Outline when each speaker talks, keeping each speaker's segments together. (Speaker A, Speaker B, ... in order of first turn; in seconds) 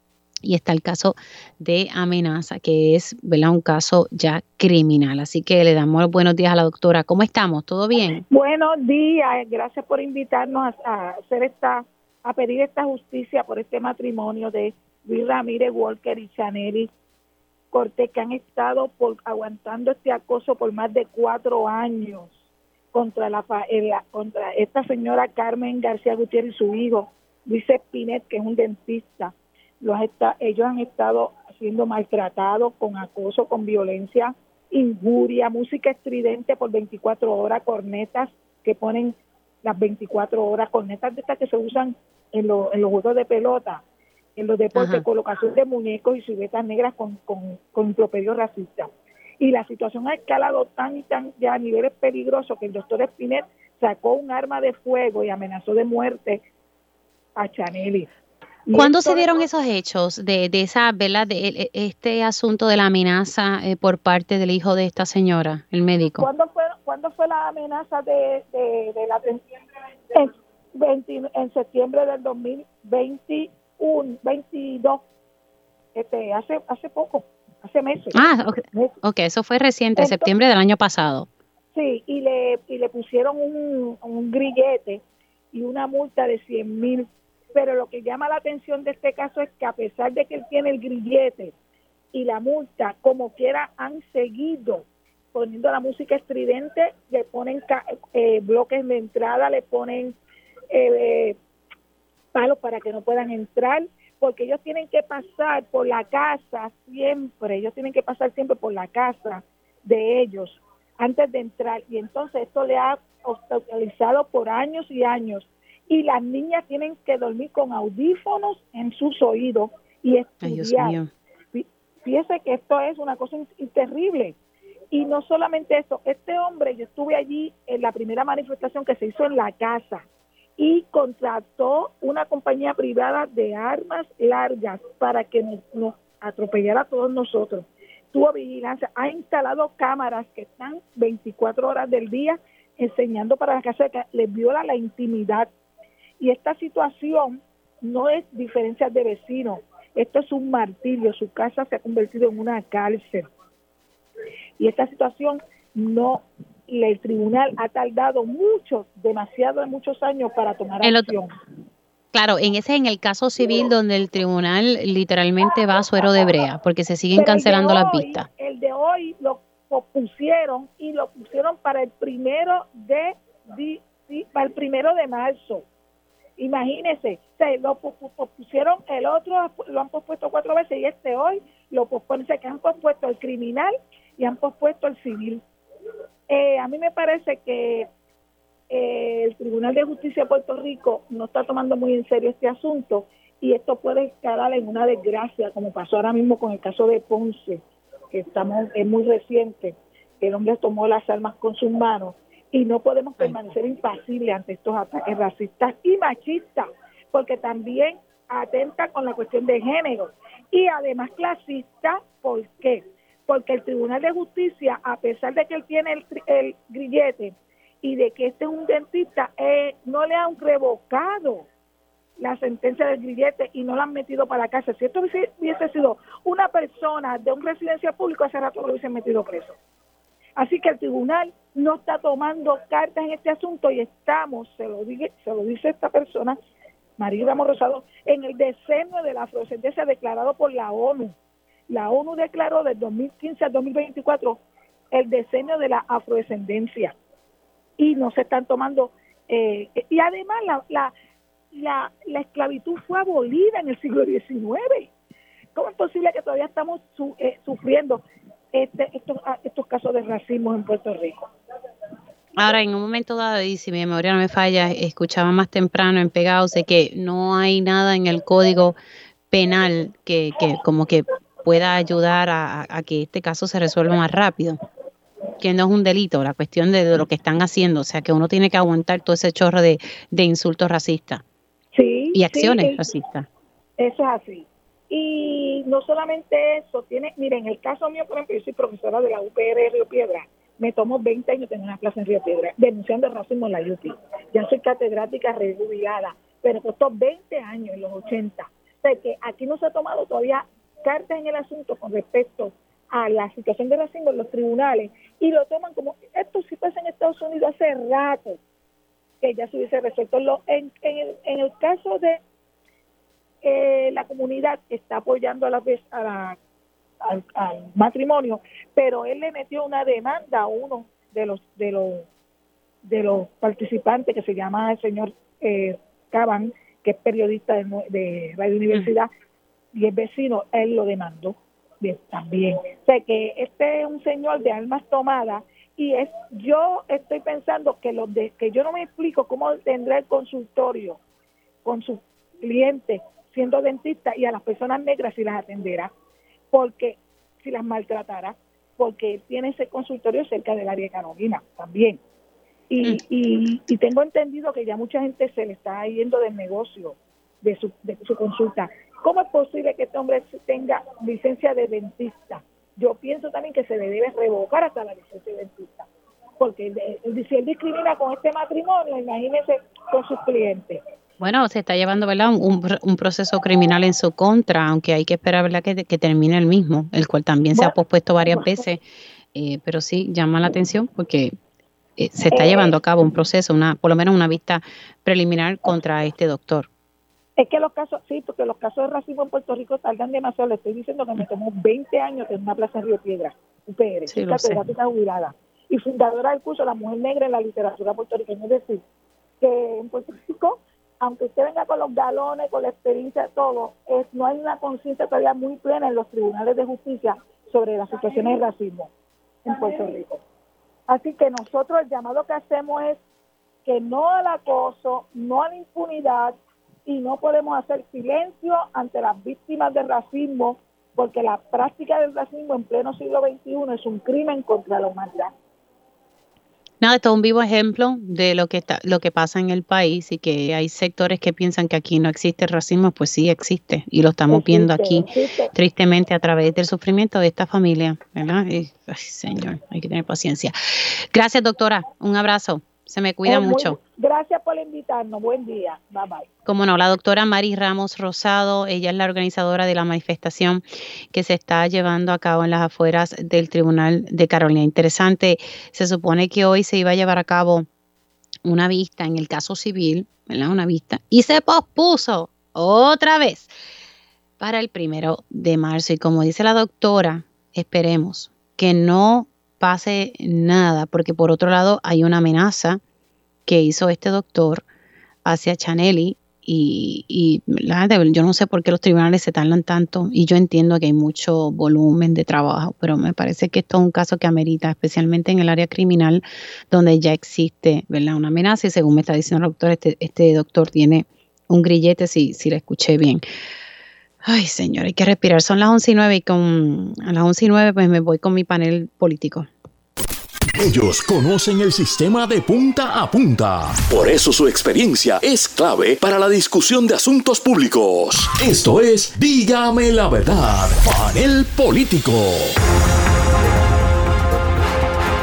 Speaker A: 0.5-8.2, 44.8-45.0, 58.7-66.3, 78.1-81.3, 120.4-121.1, 160.8-161.2, 162.1-168.3, 262.4-268.8, 269.3-274.6, 275.4-281.2, 282.1-283.3, 371.2-378.8, 379.4-381.3, 382.0-386.7, 394.1-394.6, 426.8-443.8, 446.5-457.7, 458.4-463.5, 464.4-472.8, 473.5-474.6, 475.2-493.2, 494.2-499.5
Speaker B: 8.3-16.9, 17.7-22.4, 22.9-43.8, 44.4-56.4, 57.4-58.1, 58.7-59.4, 66.2-69.4, 70.1-75.0, 76.0-78.2, 80.0-80.3, 81.7-85.0, 85.5-91.5, 92.1-100.2, 100.7-101.4, 102.3-121.0, 121.5-124.4, 124.9-130.0, 130.6-145.5, 146.2-153.3, 154.6-161.3, 167.2-175.7, 176.4-185.4, 186.3-187.9, 188.7-221.5, 222.2-229.6, 230.4-236.4, 237.0-241.2, 241.7-244.4, 244.9-246.9, 247.8-250.9, 251.5-254.9, 255.6-258.0, 258.5-261.2, 281.7-282.9, 283.8-308.4, 309.2-312.2, 313.4-316.4, 317.1-322.1, 322.9-329.1, 329.7-341.0, 341.6-345.9, 346.5-352.0, 352.7-365.9, 366.4-370.8, 378.3-378.6, 382.3-382.7, 387.4-398.8, 399.4-408.9, 409.4-410.2, 410.9-413.0, 413.6-425.3, 434.3-435.5, 443.3-446.3
Speaker C: 500.6-512.5